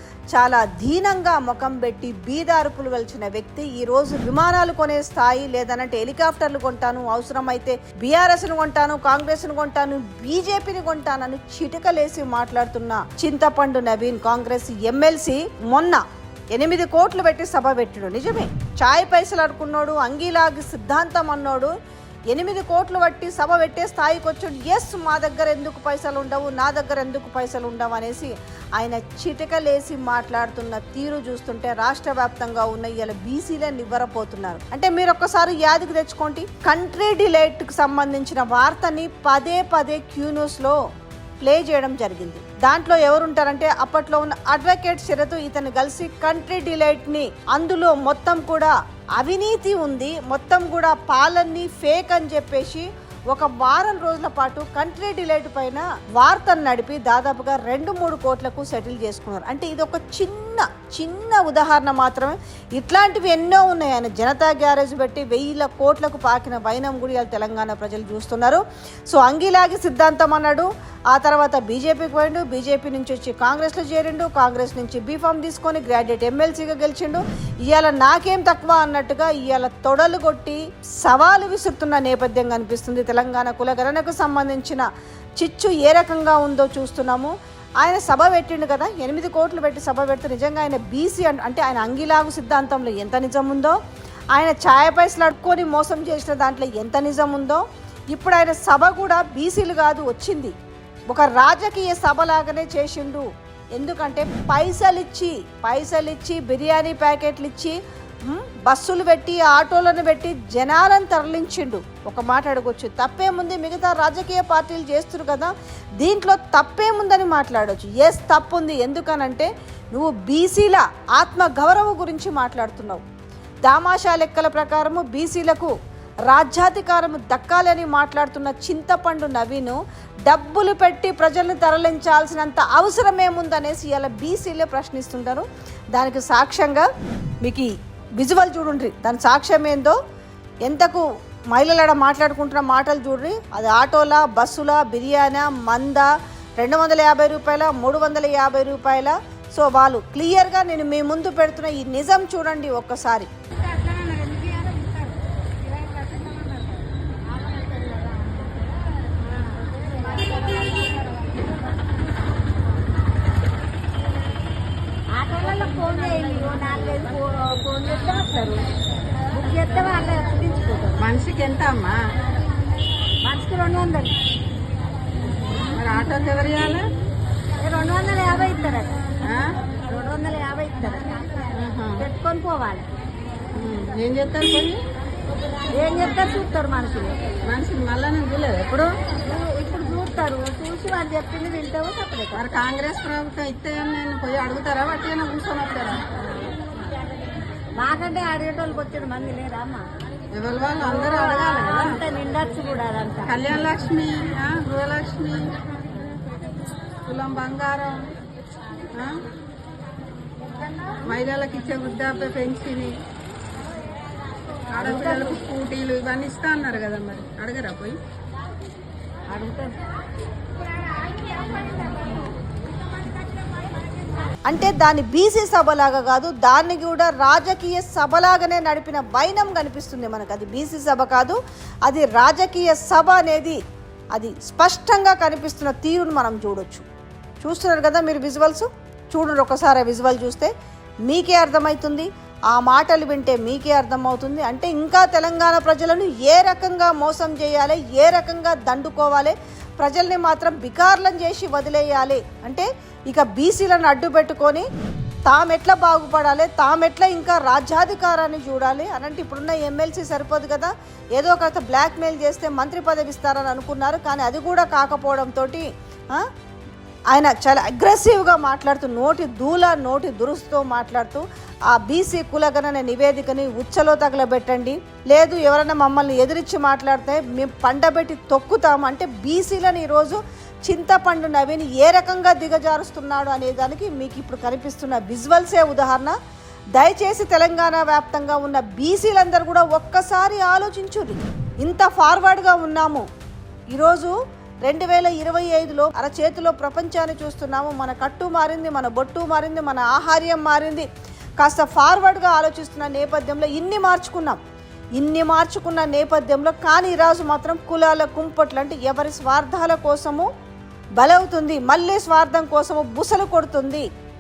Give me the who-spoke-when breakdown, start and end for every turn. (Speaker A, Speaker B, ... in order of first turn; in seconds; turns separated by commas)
Speaker A: 0.3-21.7, Speaker A: 22.3-40.8, Speaker A: 41.4-84.9, Speaker A: 85.4-93.8, Speaker A: 94.3-100.5, Speaker A: 101.1-123.0, Speaker A: 123.7-125.7, Speaker A: 126.3-136.9, Speaker A: 137.4-140.0, Speaker A: 140.7-153.3, Speaker B: 153.6-156.7, Speaker B: 157.7-158.3, Speaker B: 159.5-161.3, Speaker B: 165.1-168.7, Speaker B: 169.3-171.0, Speaker C: 171.0-172.0, Speaker B: 173.2-174.2, Speaker C: 175.6-176.9, Speaker B: 177.6-179.0, Speaker C: 179.2-179.6, Speaker B: 179.9-182.9, Speaker C: 181.5-182.0, Speaker C: 183.5-184.8, Speaker B: 185.7-187.3, Speaker C: 187.4-188.9, Speaker B: 189.1-192.4, Speaker C: 192.3-196.0, Speaker B: 197.8-199.8, Speaker C: 200.3-202.0, Speaker B: 200.9-203.3, Speaker C: 203.3-205.6, Speaker C: 207.1-208.2, Speaker C: 208.9-209.2, Speaker C: 211.1-213.0, Speaker C: 214.7-218.0, Speaker B: 214.8-215.2, Speaker B: 219.3-219.8, Speaker A: 224.5-233.6, Speaker A: 234.1-236.9, Speaker A: 237.4-240.5, Speaker A: 241.1-254.7, Speaker A: 255.3-266.3, Speaker A: 267.1-286.1, Speaker A: 286.8-293.1, Speaker A: 293.7-294.1, Speaker A: 294.6-300.9, Speaker A: 301.4-304.4, Speaker A: 305.0-310.3, Speaker A: 311.0-313.9